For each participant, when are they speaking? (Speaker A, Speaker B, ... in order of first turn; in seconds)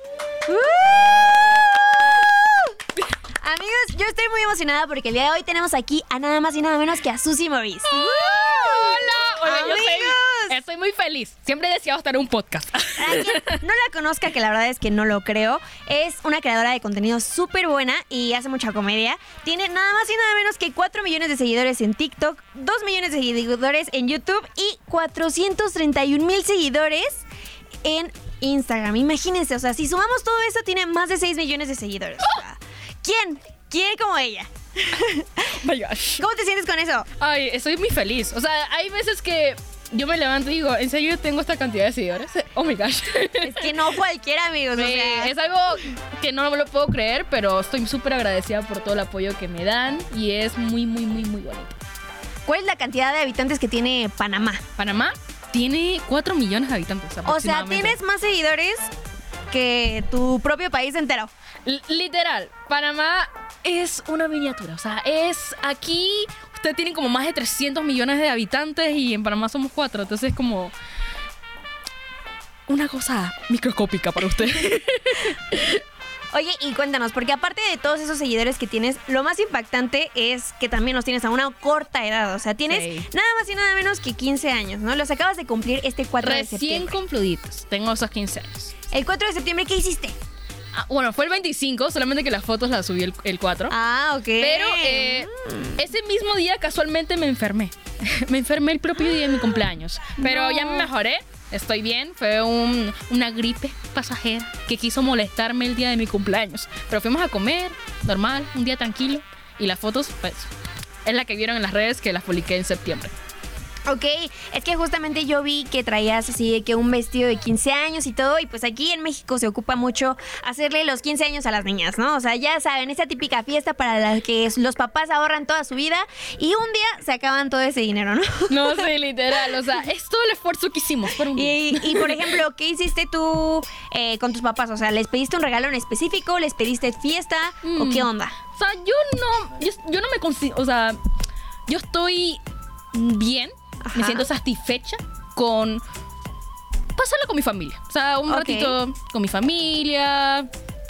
Speaker A: 0.5-2.7, 3.4-10.6, 13.0-27.2, 27.8-35.5, 36.2-37.1, 43.4-45.3, 52.5-54.6, 57.2-58.9, 59.5-61.3, 76.3-86.9, 88.9-90.2, 93.7-95.7, 100.2-100.9, 113.8-128.9, 131.3-138.3, 143.8-144.3, 148.3-148.8
Speaker B: 7.9-13.6, 35.5-36.2, 37.2-43.8, 44.7-51.8, 54.8-58.0, 61.6-70.7, 72.7-75.8, 82.7-83.1, 86.2-88.7, 90.7-93.7, 94.4-110.5, 111.0-113.1, 128.5-132.2, 137.6-141.0, 141.7-142.4, 142.9-145.8, 146.9-150.5